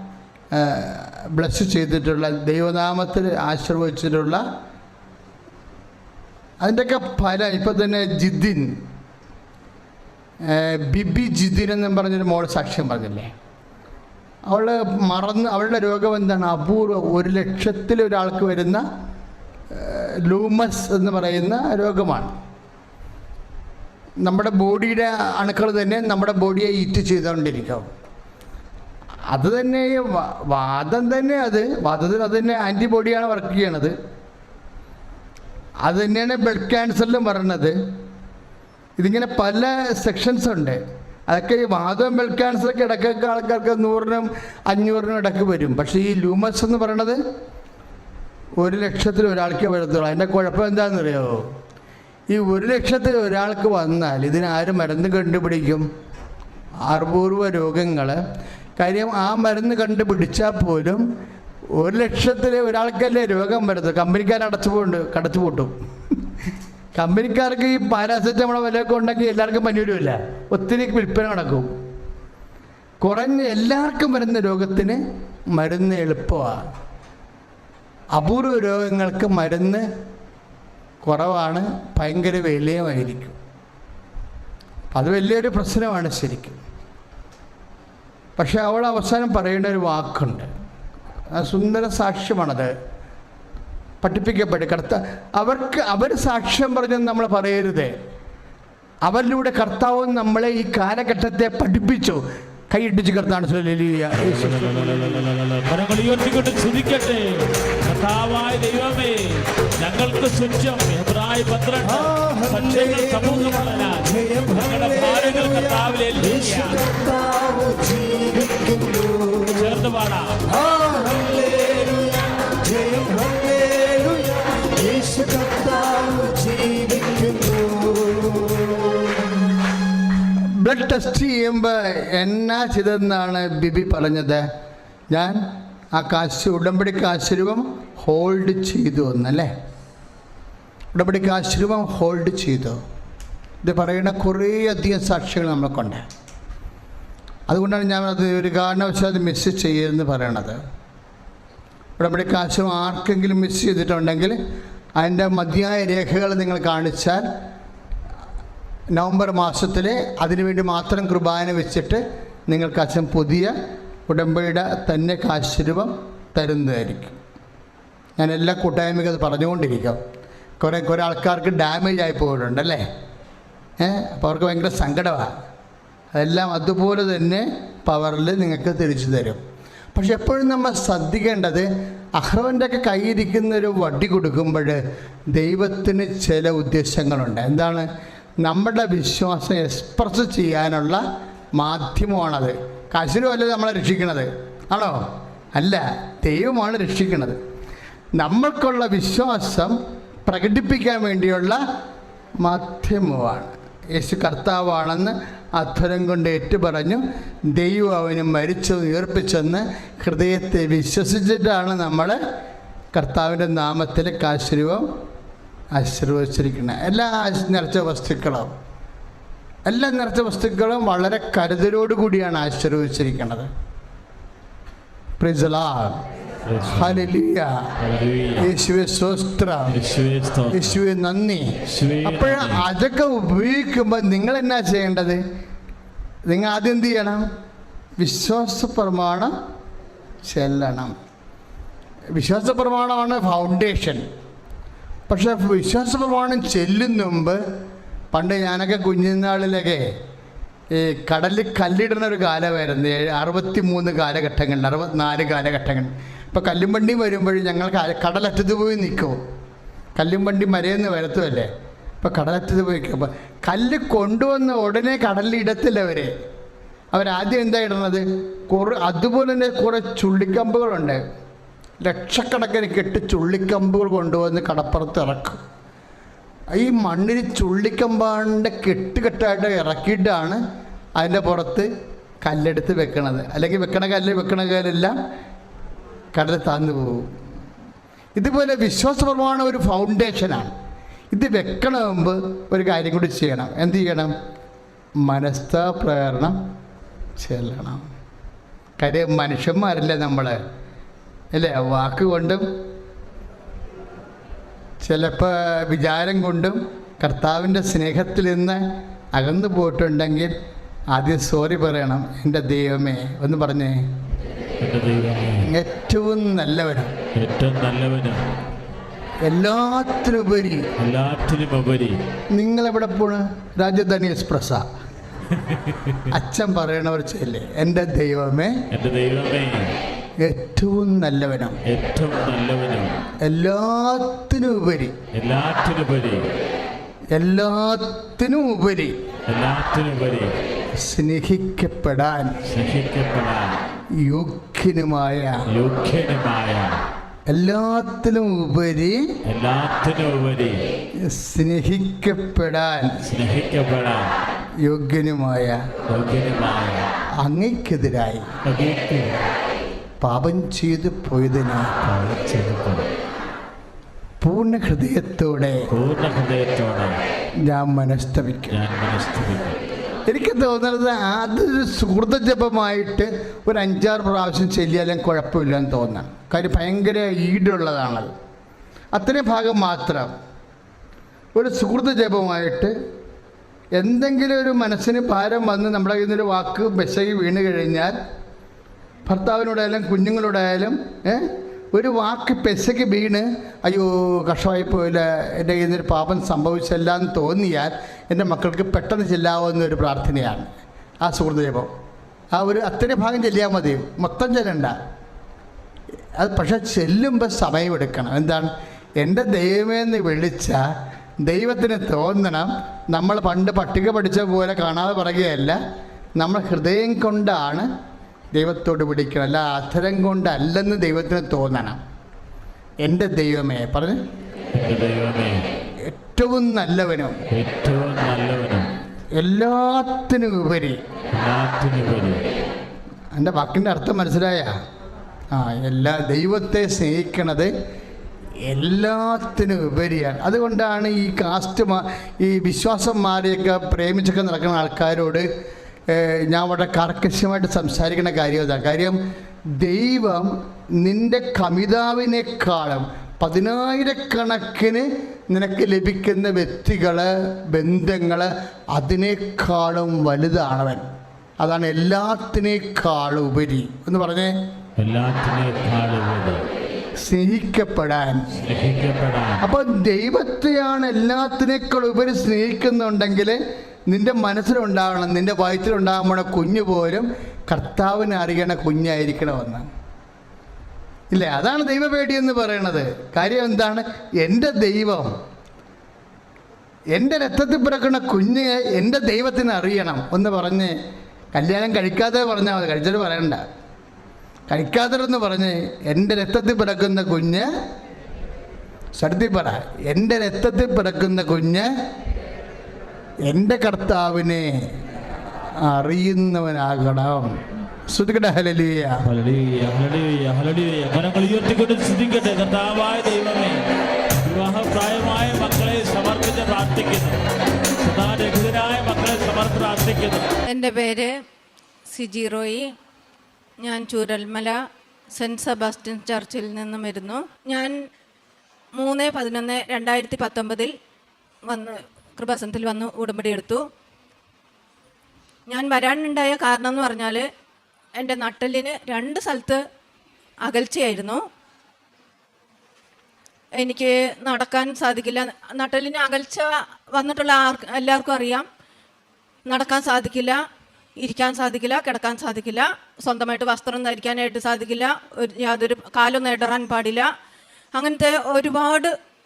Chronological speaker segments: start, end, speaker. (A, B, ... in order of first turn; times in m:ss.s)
0:00.5-0:04.4 A
0:06.6-0:08.8 A
0:10.4-0:13.3 A
0:14.5-0:18.8 A
0:19.7-0:22.3 A
0:24.2-0:27.9 A
0:29.3-0:33.9 A
0:35.8-0:37.8 A
0:39.0-0:47.2 A
0:48.6-0:51.4 A
0:52.3-0:55.8 A
0:56.9-0:58.2 A
0:58.8-1:01.0 A
1:01.8-1:11.7 A
1:13.0-1:15.0 A
1:15.5-1:16.6 A
1:18.1-1:19.8 A
1:21.0-1:23.4 A
1:24.9-1:26.6 A
1:28.4-1:30.5 A
1:31.3-1:32.7 A
1:34.0-1:37.9 A
1:39.0-1:45.1 A
1:44.2-1:56.8 B
1:51.8-1:59.8 C
1:59.6-2:00.4 B
2:00.5-2:09.1 C
2:10.4-2:14.4 A
2:15.1-2:15.4 A
2:15.9-2:19.5 A
2:20.9-2:22.8 A
2:23.6-2:26.0 A
2:27.5-2:30.6 A
2:32.0-2:34.4 A
2:35.0-2:37.2 A
2:38.9-2:43.5 A
2:44.1-2:47.2 A
2:48.2-2:50.0 A
2:50.6-2:52.8 A
2:53.8-2:55.3 A
2:56.1-2:59.4 A
2:59.9-3:04.8 A
3:05.3-3:07.8 A
3:08.4-3:11.0 A
3:11.6-3:15.0 A
3:15.5-3:17.4 A
3:18.2-3:19.8 A
3:20.3-3:21.6 A
3:22.4-3:32.2 A
3:32.9-3:34.8 A
3:35.7-3:38.5 A
3:39.6-3:43.5 A
3:45.2-3:46.0 A
3:46.4-3:47.1 B
3:46.7-3:47.6 A
3:47.8-3:48.5 B
3:48.4-3:49.8 A
3:49.7-3:50.8 B
3:50.5-3:51.5 A
3:51.7-3:52.7 B
3:52.0-3:55.2 A
3:56.3-3:57.2 A
3:58.0-3:59.3 A
4:00.2-4:00.9 A
4:02.2-4:04.0 A
4:05.1-4:07.4 A
4:08.1-4:09.8 A
4:10.7-4:19.2 A
4:20.0-4:21.5 A
4:22.0-4:26.1 A
4:26.9-4:31.0 A
4:31.8-4:35.4 A
4:36.6-4:40.4 A
4:41.0-4:41.7 A
4:42.2-4:45.0 A
4:46.1-4:47.1 A
4:48.2-4:50.5 A
4:51.1-4:54.1 A
4:55.0-4:56.4 A
4:57.2-4:57.8 A
4:58.8-5:00.4 A
5:01.3-5:02.4 A
5:04.8-5:08.6 A
5:09.1-5:10.3 A
5:10.9-5:13.8 A
5:14.6-5:15.5 B
5:15.4-5:16.9 A
5:17.1-5:18.2 B
5:19.2-5:20.6 A
5:20.8-5:22.0 B
5:22.3-5:24.6 A
5:25.3-5:26.0 B
5:26.1-5:28.6 A
5:28.7-5:29.7 B
5:30.2-5:31.6 A
5:31.6-5:33.0 B
5:33.2-5:35.0 A
5:35.1-5:36.3 B
5:37.1-5:39.0 A
5:39.3-5:40.3 B
5:40.8-5:42.4 A
5:42.5-5:43.6 B
5:43.9-5:45.4 A
5:45.5-5:46.8 B
5:47.3-5:49.0 A
5:49.2-5:50.6 B
5:51.0-5:53.0 A
5:53.0-5:54.1 B
5:54.6-5:55.6 A
5:55.9-5:56.8 B
5:57.2-5:58.2 A
5:58.4-5:59.2 B
6:00.0-6:02.0 A
6:01.9-6:02.8 B
6:04.2-6:05.6 A
6:05.7-6:07.0 B
6:07.4-6:08.6 A
6:08.5-6:09.6 B
6:10.1-6:18.1 A
6:18.9-6:20.1 A
6:21.4-6:22.7 A
6:23.8-6:28.0 A
6:29.1-6:40.5 A
6:41.0-6:41.7 A
6:42.3-6:44.7 A
6:46.2-6:50.6 A
6:51.2-6:55.6 A
6:56.2-6:57.7 A
6:58.3-7:01.8 A
7:02.8-7:04.0 A
7:04.5-7:05.4 B
7:05.8-7:07.2 A
7:07.3-7:08.7 B
7:09.1-7:10.8 A
7:11.1-7:12.2 B
7:13.1-7:14.5 A
7:15.3-7:17.5 A
7:18.4-7:25.2 A
7:25.9-7:29.0 A
7:29.6-7:40.8 A
7:41.4-7:44.3 A
7:44.8-7:46.4 B
7:47.0-7:48.2 A
7:48.4-7:49.4 B
7:49.4-7:53.4 A
7:53.9-7:59.7 A
8:01.1-8:05.1 A
8:06.9-8:10.7 A
8:11.3-8:13.4 A
8:14.5-8:17.5 A
8:19.0-8:21.7 A
8:23.2-8:24.5 A
8:25.6-8:29.0 A
8:29.0-8:33.6 B
8:34.2-8:37.2 B
8:37.8-8:40.3 B
8:40.5-8:41.2 D
8:41.9-8:42.7 D
8:43.6-8:44.6 D
8:45.1-8:47.8 D
8:48.8-8:50.7 D
8:51.5-8:53.6 D
8:55.5-8:57.2 D
8:58.0-8:59.6 D
9:00.4-9:01.2 D
9:03.6-9:08.4 D
9:09.5-9:10.4 D
9:11.0-9:17.1 D
9:17.7-9:18.9 D